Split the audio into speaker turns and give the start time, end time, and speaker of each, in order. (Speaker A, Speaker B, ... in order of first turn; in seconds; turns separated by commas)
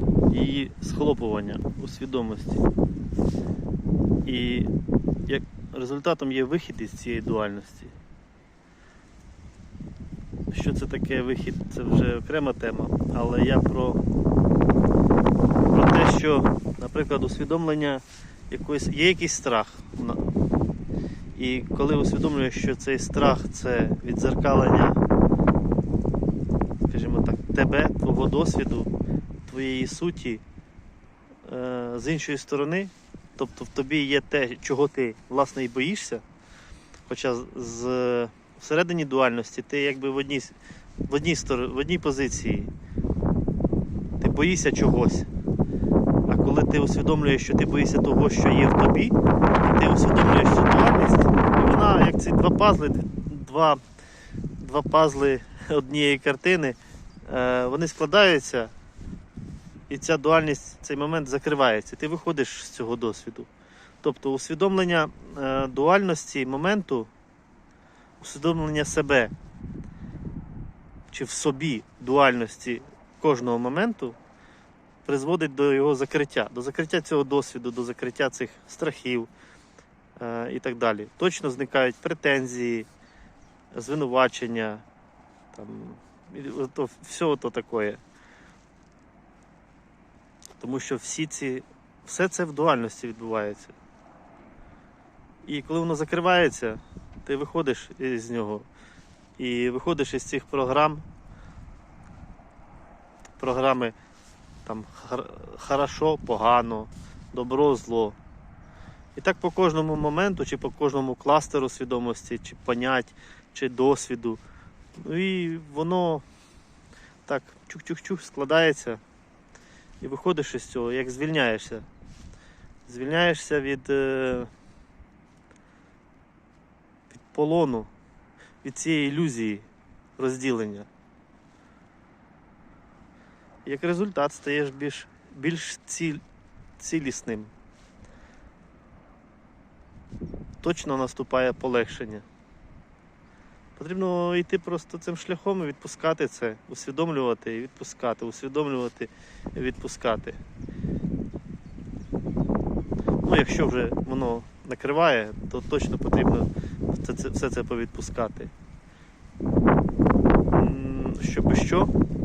Speaker A: 0.3-2.7, Speaker A: 4.2-4.7, Speaker A: 5.2-7.9, Speaker A: 10.5-14.0, Speaker A: 15.7-20.3, Speaker A: 21.3-25.0, Speaker A: 26.9-28.9, Speaker A: 29.4-30.4, Speaker A: 31.4-36.2, Speaker A: 37.1-40.5, Speaker A: 41.1-42.7, Speaker A: 44.2-45.3, Speaker A: 46.3-53.8, Speaker A: 54.6-58.7, Speaker A: 59.9-63.5, Speaker A: 64.0-67.1, Speaker A: 68.2-69.3, Speaker A: 71.1-74.2, Speaker A: 75.0-79.3, Speaker A: 80.2-82.9, Speaker A: 83.7-84.8, Speaker A: 85.5-88.0, Speaker A: 90.6-93.7, Speaker A: 95.4-98.7, Speaker A: 99.4-101.0, Speaker A: 103.4-104.0, Speaker A: 104.6-108.2, Speaker A: 109.2-114.4, Speaker A: 115.0-116.2, Speaker A: 117.3-119.0, Speaker A: 120.0-121.9, Speaker A: 122.8-124.5, Speaker A: 127.1-127.9, Speaker A: 128.6-130.9, Speaker A: 133.6-136.2, Speaker A: 136.8-137.5, Speaker A: 140.6-142.2, Speaker A: 143.8-150.4, Speaker A: 153.2-158.5, Speaker A: 160.5-161.9